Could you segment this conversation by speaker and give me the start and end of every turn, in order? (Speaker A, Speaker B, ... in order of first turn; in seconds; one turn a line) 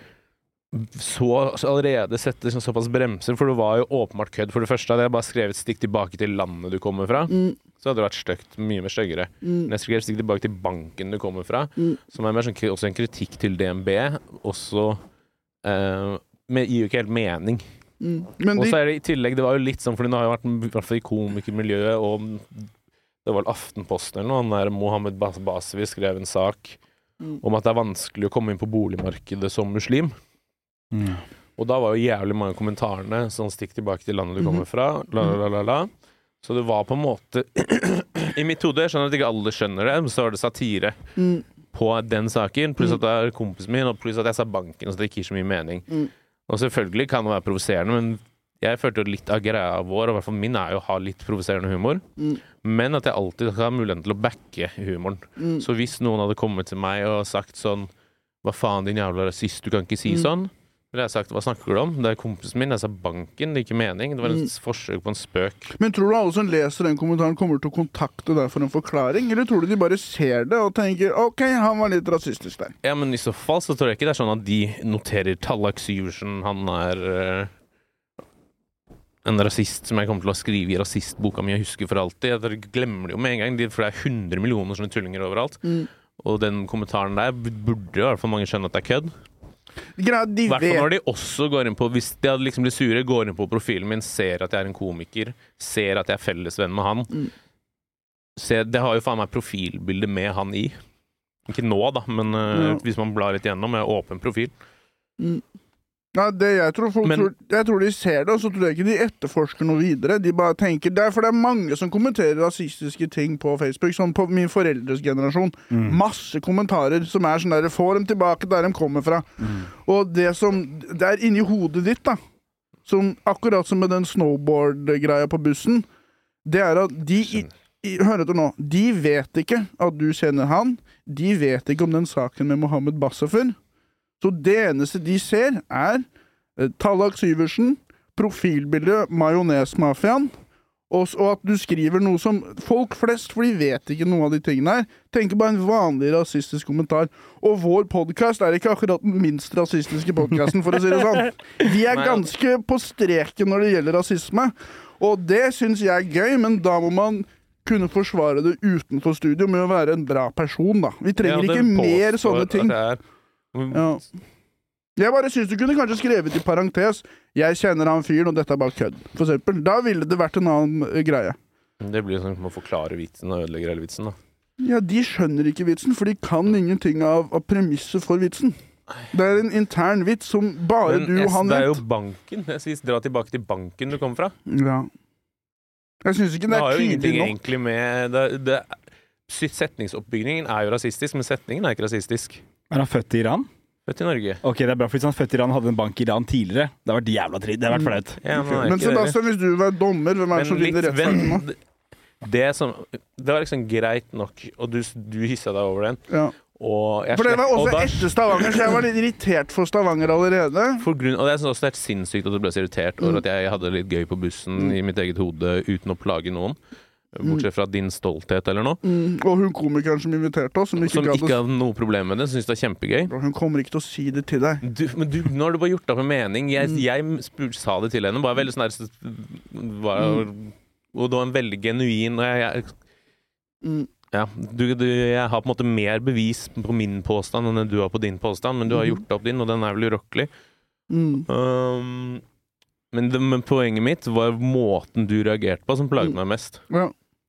Speaker A: 0.7-15.0
Speaker B: 7.3-7.6
Speaker B: 9.4-9.7
Speaker A: 15.6-17.6
Speaker B: 18.0-18.8
Speaker A: 18.6-22.7
Speaker A: 23.2-26.8
Speaker A: 27.4-30.2
Speaker C: 30.9-31.2
Speaker A: 31.6-35.9
Speaker A: 36.4-41.0
Speaker B: 41.2-41.4
Speaker A: 41.7-45.9
Speaker A: 46.5-52.0
Speaker A: 52.6-57.9
Speaker B: 55.4-55.6
Speaker A: 58.4-65.7
Speaker B: 65.8-72.7
Speaker A: 72.8-77.5
Speaker A: 79.2-89.1
Speaker B: 90.0-90.9
Speaker A: 90.5-97.1
Speaker A: 98.4-100.8
Speaker A: 101.5-104.5
Speaker B: 102.5-102.8
Speaker B: 106.2-122.2
Speaker A: 107.0-107.3
Speaker C: 115.7-116.0
Speaker B: 122.9-125.9
Speaker B: 126.5-133.6
Speaker B: 134.2-136.1
Speaker B: 136.6-140.3
Speaker B: 140.9-162.8
Speaker A: 151.9-152.2
Speaker A: 161.2-163.0
Speaker A: 163.5-163.9
Speaker B: 163.7-164.0
Speaker B: 165.0-171.4
Speaker A: 171.8-174.2
Speaker B: 174.6-178.6
Speaker B: 179.1-181.8
Speaker A: 180.8-184.3
Speaker B: 184.5-184.9
Speaker B: 186.1-187.3
Speaker A: 186.5-188.7
Speaker A: 189.3-192.4
Speaker C: 192.7-193.5
Speaker A: 193.9-194.4
Speaker C: 194.4-198.2
Speaker B: 197.7-201.4
Speaker A: 198.2-199.2
Speaker A: 200.3-201.6
Speaker A: 202.2-206.0
Speaker A: 206.5-208.5
Speaker B: 207.1-210.8
Speaker A: 210.8-216.6
Speaker A: 217.1-218.8
Speaker B: 218.8-221.3
Speaker A: 220.9-223.1
Speaker B: 223.1-224.6
Speaker A: 224.6-232.7
Speaker A: 234.1-240.3
Speaker B: 238.7-239.0
Speaker B: 240.9-241.3
Speaker A: 241.3-242.2
Speaker A: 242.9-246.6